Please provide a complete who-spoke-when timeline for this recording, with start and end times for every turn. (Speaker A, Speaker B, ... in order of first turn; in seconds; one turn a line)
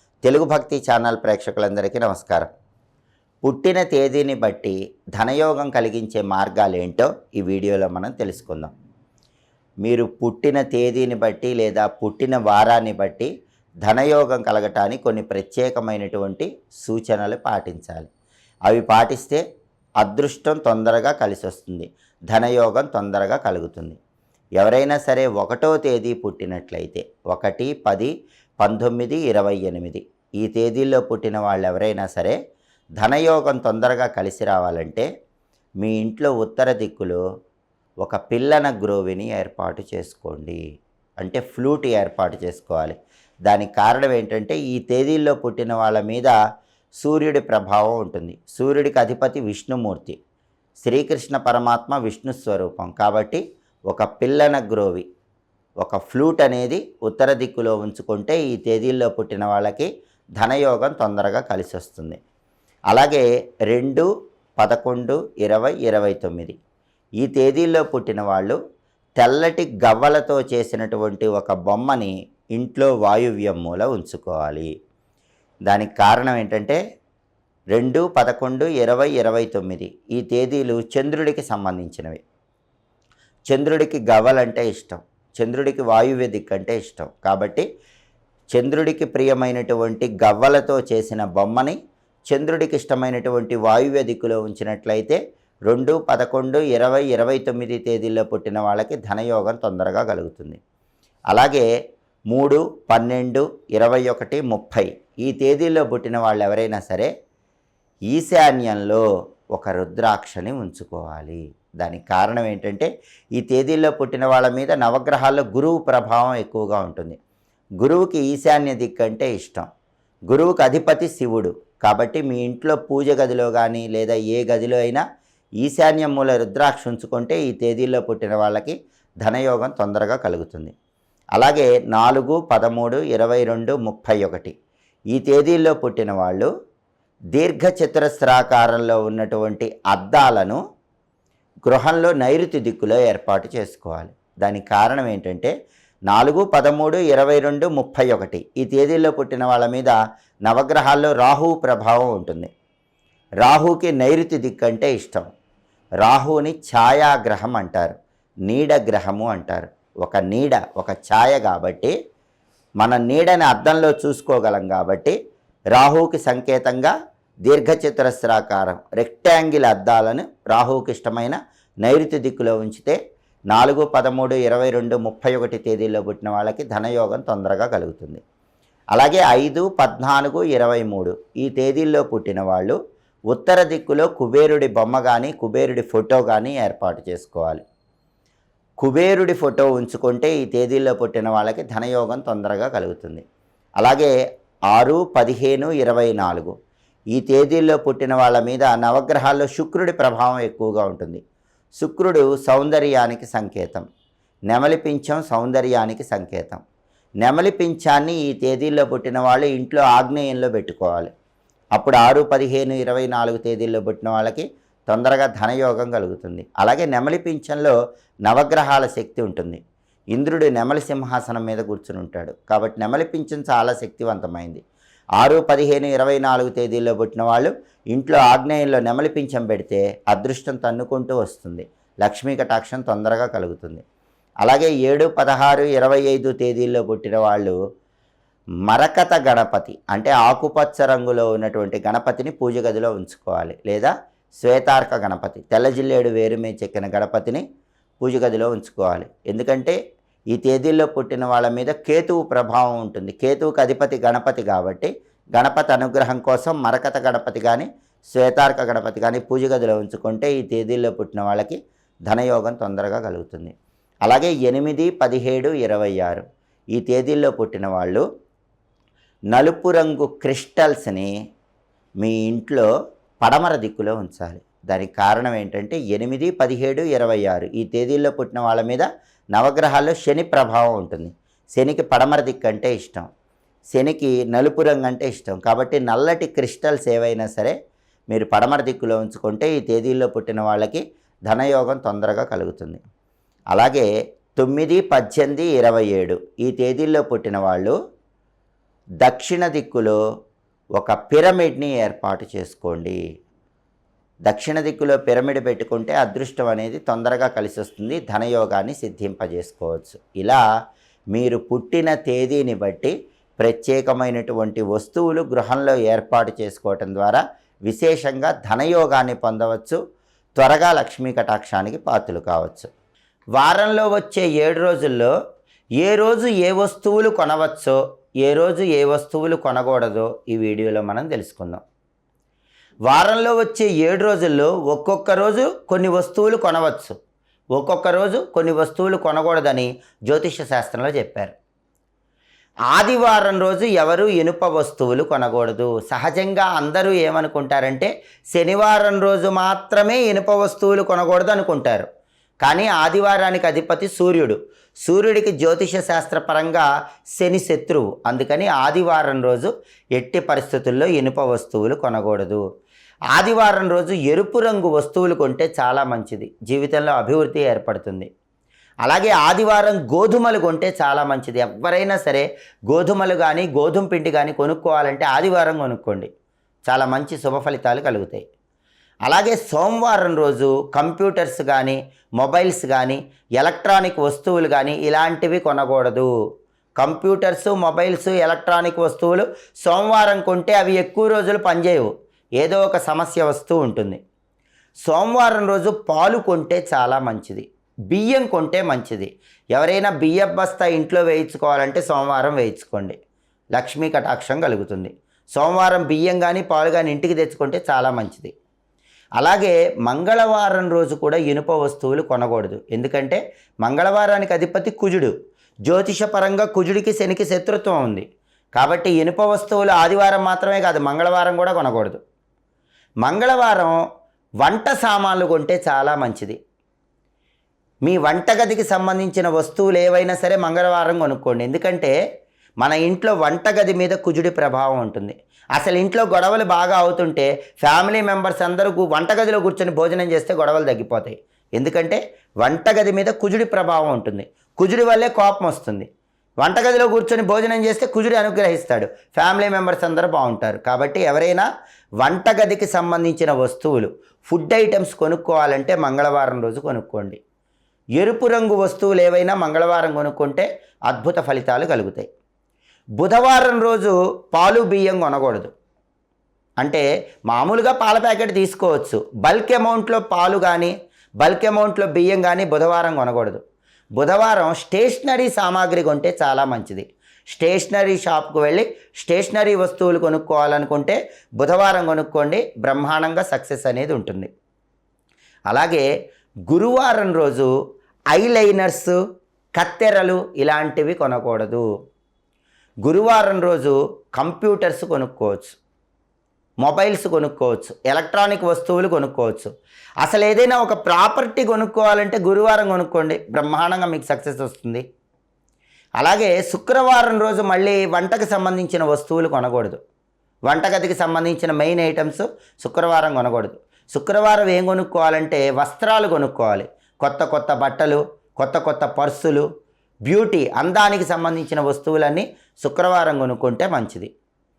Speaker A: 0.2-2.5
Speaker A: 3.4-8.7
Speaker A: 9.8-13.3
Speaker A: 13.9-18.1
Speaker A: 18.7-19.4
Speaker A: 20.0-24.0
Speaker A: 24.6-32.4
Speaker A: 33.0-35.1
Speaker A: 35.8-37.2
Speaker A: 38.0-40.6
Speaker A: 41.2-43.0
Speaker A: 43.5-46.4
Speaker A: 47.0-50.2
Speaker A: 50.8-55.1
Speaker A: 55.8-62.2
Speaker A: 62.9-64.1
Speaker A: 64.6-66.6
Speaker A: 67.2-68.6
Speaker A: 69.2-74.7
Speaker A: 75.7-76.8
Speaker A: 77.8-82.2
Speaker A: 83.5-87.7
Speaker A: 88.5-91.8
Speaker A: 92.3-100.6
Speaker A: 101.3-101.7
Speaker A: 102.3-107.1
Speaker A: 108.1-109.0
Speaker A: 109.6-117.2
Speaker A: 117.8-119.7
Speaker A: 120.3-125.0
Speaker A: 125.6-130.7
Speaker A: 131.4-134.5
Speaker A: 135.1-136.5
Speaker A: 137.3-140.6
Speaker A: 141.7-145.5
Speaker A: 146.1-152.5
Speaker A: 153.4-155.3
Speaker A: 156.0-157.9
Speaker A: 158.5-161.9
Speaker A: 162.8-165.2
Speaker A: 165.7-166.9
Speaker A: 167.5-173.0
Speaker A: 173.5-178.2
Speaker A: 178.9-182.8
Speaker A: 183.3-187.6
Speaker A: 188.8-193.2
Speaker A: 193.8-194.1
Speaker A: 194.7-196.5
Speaker A: 197.2-201.2
Speaker A: 201.8-203.9
Speaker A: 204.5-206.6
Speaker A: 207.2-211.1
Speaker A: 211.8-217.8
Speaker A: 218.3-219.6
Speaker A: 220.1-224.6
Speaker A: 225.2-233.8
Speaker A: 234.4-237.6
Speaker A: 238.7-247.4
Speaker A: 248.0-249.8
Speaker A: 250.3-261.6
Speaker A: 262.1-263.5
Speaker A: 264.1-268.0
Speaker A: 269.3-271.1
Speaker A: 272.0-272.7
Speaker A: 273.2-283.1
Speaker A: 283.7-287.6
Speaker A: 288.1-292.8
Speaker A: 293.5-297.8
Speaker A: 299.0-300.0
Speaker A: 300.8-303.0
Speaker A: 304.3-310.4
Speaker A: 311.1-319.8
Speaker A: 320.4-322.7
Speaker A: 323.4-325.1
Speaker A: 325.8-331.6
Speaker A: 332.9-337.0
Speaker A: 337.6-341.3
Speaker A: 342.7-351.9
Speaker A: 352.4-356.7
Speaker A: 357.2-362.4
Speaker A: 363.1-368.1
Speaker A: 368.9-376.1
Speaker A: 376.7-378.2
Speaker A: 379.1-386.1
Speaker A: 386.8-394.0
Speaker A: 394.9-403.0
Speaker A: 403.6-408.3
Speaker A: 409.2-415.1
Speaker A: 415.7-422.0
Speaker A: 423.1-423.8
Speaker A: 424.4-426.4
Speaker A: 427.9-432.0
Speaker A: 432.6-445.9
Speaker A: 446.4-451.5
Speaker A: 452.0-457.2
Speaker A: 458.0-462.1
Speaker A: 463.0-465.5
Speaker A: 466.6-473.4
Speaker A: 474.0-484.3
Speaker A: 485.5-485.9
Speaker A: 486.5-487.5
Speaker A: 488.1-489.0
Speaker A: 489.6-491.7
Speaker A: 492.9-495.6
Speaker A: 496.6-499.5
Speaker A: 500.0-504.9
Speaker A: 506.0-509.8
Speaker A: 510.5-519.5
Speaker A: 520.1-524.1